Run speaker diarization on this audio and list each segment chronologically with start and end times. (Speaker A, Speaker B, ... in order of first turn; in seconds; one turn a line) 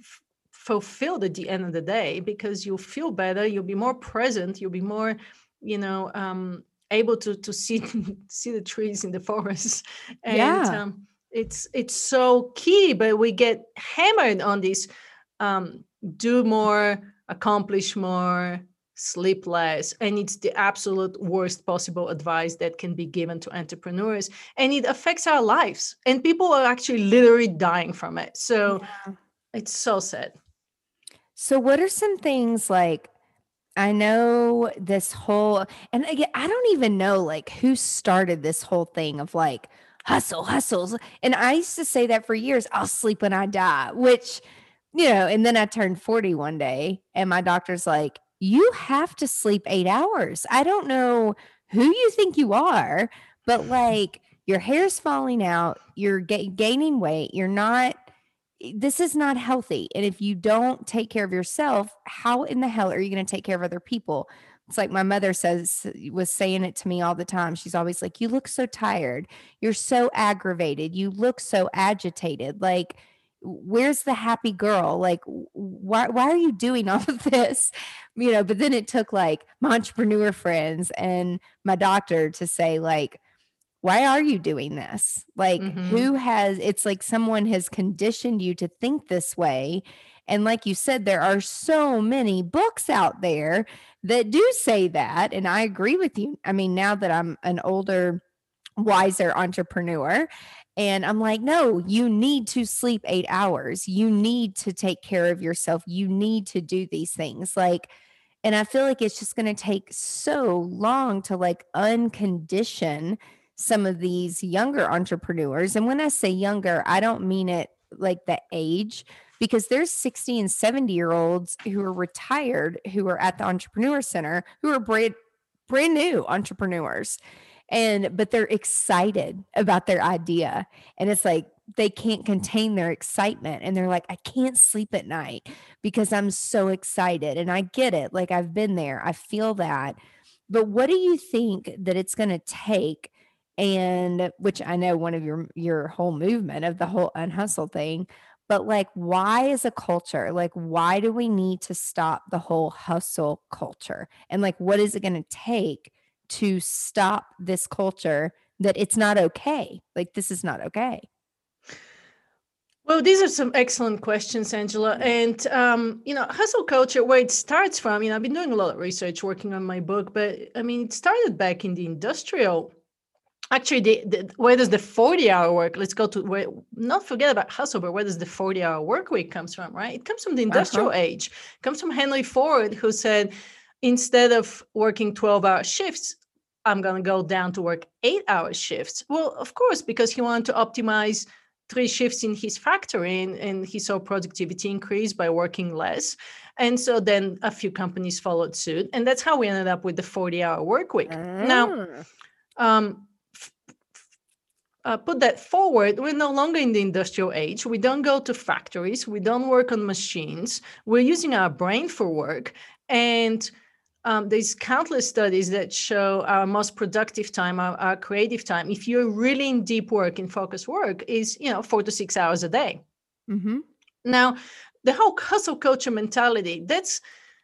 Speaker A: 0.5-14.9
Speaker B: 10.3-10.8
Speaker A: 15.4-28.9
Speaker B: 28.7-29.1
Speaker A: 29.5-30.3
Speaker B: 31.4-33.1
Speaker B: 33.8-44.4
Speaker B: 44.9-58.0
Speaker B: 58.6-83.2
Speaker B: 83.8-98.2
Speaker A: 85.6-86.1
Speaker B: 98.8-107.9
Speaker B: 108.4-125.1
Speaker B: 125.7-127.2
Speaker B: 127.7-140.0
Speaker B: 140.5-161.1
Speaker A: 162.8-172.7
Speaker A: 173.5-183.3
Speaker B: 180.5-180.9
Speaker A: 183.8-201.8
Speaker B: 201.1-202.0
Speaker A: 202.6-203.5
Speaker A: 204.8-213.5
Speaker A: 214.0-222.8
Speaker B: 223.3-223.6
Speaker A: 224.0-227.0